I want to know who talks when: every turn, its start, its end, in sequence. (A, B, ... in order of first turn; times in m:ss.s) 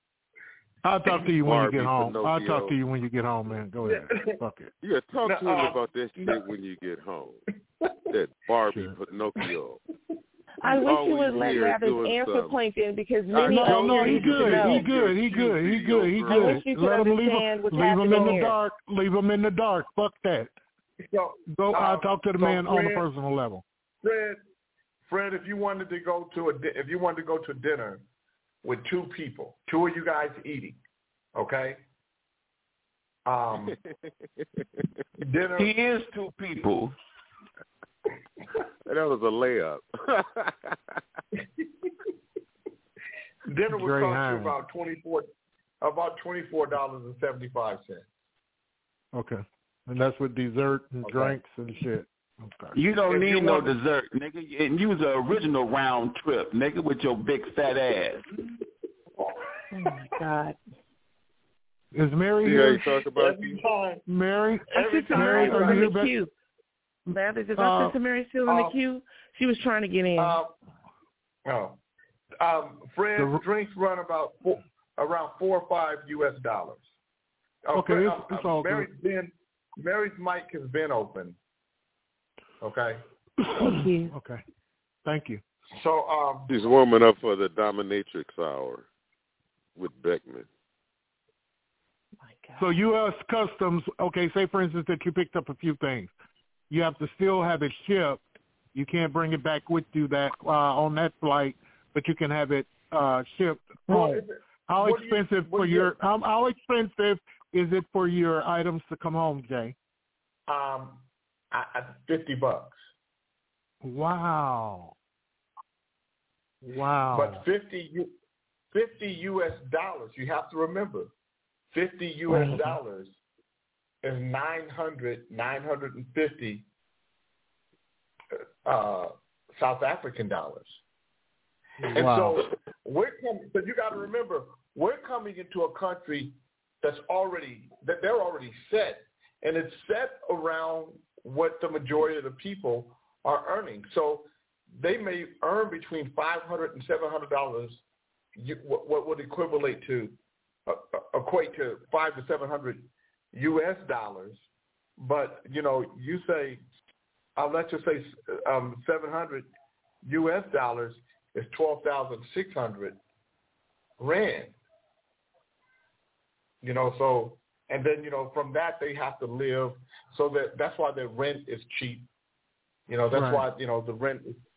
0:00.8-0:04.7 A
0:01.4-0:02.7 B
0:03.8-0:04.3 C
0:04.8-0:07.4 B
0:05.2-0:06.4 C
0:08.1-0:09.8 B
0:10.6-0:14.8 D
0:10.8-0:12.6 B
0:13.4-0:20.5 A
0:13.6-0:16.6 B
0:16.2-0:18.6 D
0:21.0-0:23.1 C
0:21.5-0:23.6 A
0:24.0-0:24.4 C
0:25.1-0:28.0 C
0:28.6-0:30.8 C
0:31.4-0:31.8 C
0:33.2-0:33.8 C
0:35.2-0:35.7 C
0:35.6-0:36.9 E
0:38.8-0:40.8 B
0:43.4-0:45.3 C
0:43.7-0:44.5 A
0:45.8-0:48.0 C
0:49.1-0:52.8 A
0:51.0-0:51.4 C
0:52.7-0:58.2 E
0:59.7-1:00.6 D
1:01.9-1:02.8 A
1:02.4-1:03.6 B
1:03.0-1:04.0 C
1:04.1-1:06.2 A
1:04.7-1:06.0 C
1:04.7-1:06.3 D
1:07.1-1:08.0 A
1:07.1-1:10.4 D
1:08.4-1:08.7 C
1:10.2-1:10.5 C
1:11.4-1:11.8 C
1:12.4-1:16.8 C
1:13.2-1:13.4 A
1:17.6-1:21.4 C
1:17.7-1:18.9 A
1:22.6-1:23.0 C
1:23.5-1:24.4 A
1:23.6-1:24.1 D
1:25.0-1:25.4 A
1:25.7-1:26.5 C
1:26.5-1:28.8 B
1:29.8-1:30.5 B
1:32.2-1:32.7 D
1:32.6-1:36.1 A
1:36.7-1:38.2 A
1:38.7-1:49.7 A
1:43.9-1:46.0 C
1:50.5-1:51.0 C
1:51.5-1:52.8 C
1:53.8-1:54.9 A
1:56.6-1:57.4 A
1:57.1-1:58.1 C
1:58.7-2:01.1 C
2:01.7-2:03.1 C
2:04.0-2:06.6 C
2:08.6-2:10.8 C
2:11.9-2:27.8 C
2:28.4-2:30.1 C
2:30.6-2:34.4 C
2:35.0-2:36.6 C
2:37.4-2:39.5 C
2:40.0-2:43.0 C
2:44.0-2:44.5 C
2:46.6-2:52.0 C
2:52.9-2:54.4 C
2:53.1-2:53.4 A